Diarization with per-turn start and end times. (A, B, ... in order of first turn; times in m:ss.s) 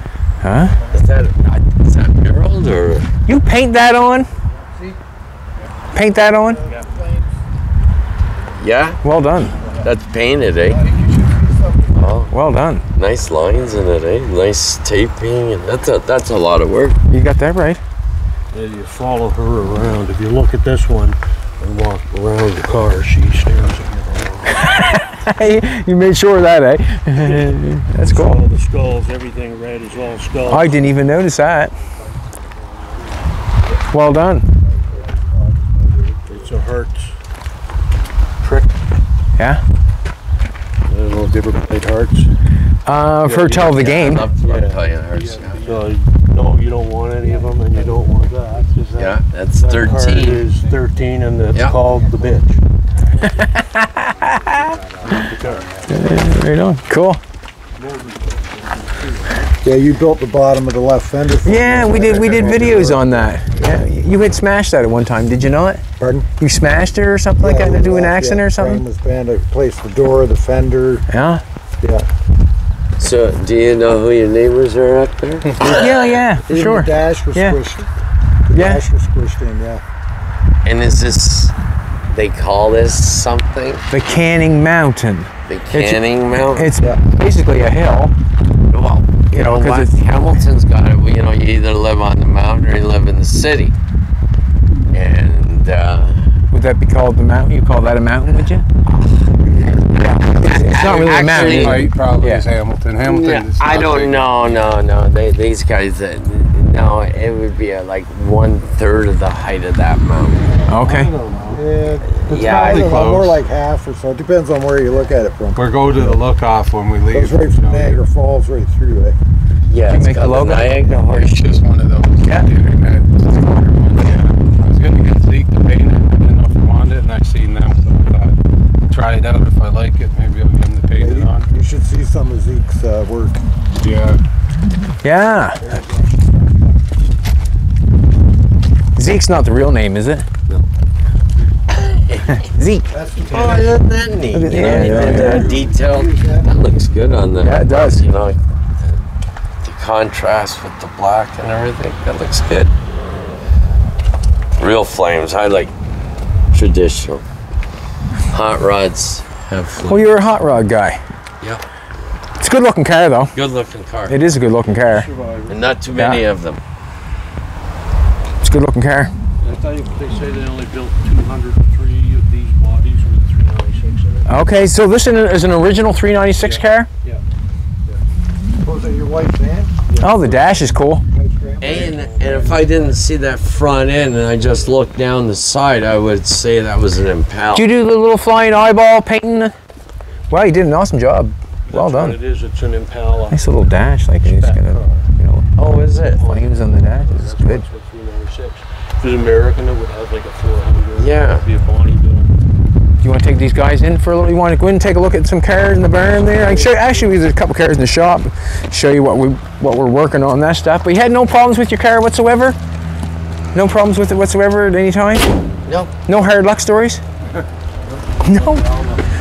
0:00.4-0:00.8 A
0:00.9-0:03.1 B
0:03.3-0:04.3 A
0:05.9-0:06.6 A
0:06.3-0:07.3 C
0:08.6-0:09.0 B
0:09.0-0:09.6 A
0:09.8-0:10.9 B
0:10.7-0:12.2 C
0:12.0-0:12.3 B
0:12.3-0:12.9 A
0:13.0-0:17.0 B
0:17.1-0:17.8 A
0:18.5-0:24.7 D
0:24.5-0:28.4 A
0:27.1-0:30.8 D
0:30.5-0:31.7 A
0:33.9-0:34.5 A
0:34.7-0:36.3 C
0:36.3-0:37.1 D
0:38.4-0:38.7 D
0:39.4-0:39.6 A
0:40.9-0:42.3 D
0:42.9-0:44.3 A
0:43.2-0:43.7 D
0:43.6-0:45.6 B
0:44.4-0:44.8 D
0:45.5-0:52.6 D
0:49.0-0:50.4 B
0:51.5-0:51.8 B
0:53.2-0:54.7 A
0:54.2-0:56.0 E
0:55.0-0:55.7 D
0:55.9-0:57.2 A
0:57.8-0:59.5 D
0:59.6-1:03.7 C
1:01.4-1:05.8 A
1:06.0-1:06.3 C
1:06.4-1:08.8 A
1:07.4-1:11.1 C
1:11.1-1:11.4 A
1:13.0-1:16.1 B
1:15.6-1:17.9 C
1:15.6-1:17.6 A
1:18.5-1:19.8 C
1:18.5-1:18.8 A
1:20.6-1:21.5 B
1:22.1-1:23.9 B
1:23.9-1:26.0 A
1:25.5-1:26.7 B
1:26.6-1:28.1 A
1:28.7-1:33.7 B
1:29.4-1:30.0 A
1:34.9-1:36.3 B
1:36.5-1:38.6 A
1:39.0-1:41.9 B
1:40.0-1:42.5 A
1:40.8-1:44.6 E
1:43.0-1:50.5 B
1:50.7-1:51.1 A
1:50.9-1:51.6 E
1:50.9-1:51.6 D
1:51.5-1:56.2 C
1:52.1-1:53.0 B
1:52.4-1:53.4 E
1:55.6-1:58.0 E
1:57.1-1:59.2 C
1:59.7-2:01.6 B
1:59.9-2:00.7 A
2:00.9-2:08.4 E
2:08.9-2:11.5 E
2:11.0-2:13.4 C
2:13.8-2:14.2 E
2:15.0-2:15.6 A
2:15.5-2:16.8 C
2:19.0-2:20.3 A
2:21.7-2:22.4 B
2:22.3-2:22.9 A
2:22.9-2:23.8 C
2:23.3-2:29.0 B
2:24.3-2:25.5 A
2:24.5-2:26.8 C
2:27.4-2:28.1 A
2:29.6-2:32.7 B
2:34.6-2:35.7 B
2:36.5-2:37.2 B
2:38.3-2:40.1 B
2:39.9-2:41.0 A
2:42.4-2:43.3 A
2:43.3-2:44.2 B
2:44.1-2:45.1 A
2:44.8-2:45.6 D
2:45.5-2:46.6 B
2:46.0-2:46.2 A
2:48.4-2:49.1 A
2:49.4-2:54.3 D
2:54.3-2:56.9 A
2:56.4-2:57.2 D
2:58.6-3:00.4 C
2:59.9-3:00.5 D
3:00.0-3:01.0 A
3:01.1-3:02.6 C
3:01.6-3:07.6 B
3:01.6-3:02.6 D
3:07.5-3:09.5 A
3:10.3-3:12.2 A
3:11.7-3:13.5 D
3:13.3-3:15.5 A
3:14.2-3:15.1 D
3:15.6-3:16.3 B
3:16.2-3:22.3 D
3:16.2-3:17.6 A
3:21.0-3:21.5 B
3:23.0-3:32.6 A
3:26.3-3:27.1 D
3:33.5-3:35.3 A
3:35.6-3:35.9 B
3:36.1-3:37.0 A
3:38.2-3:38.7 A
3:38.3-3:39.0 D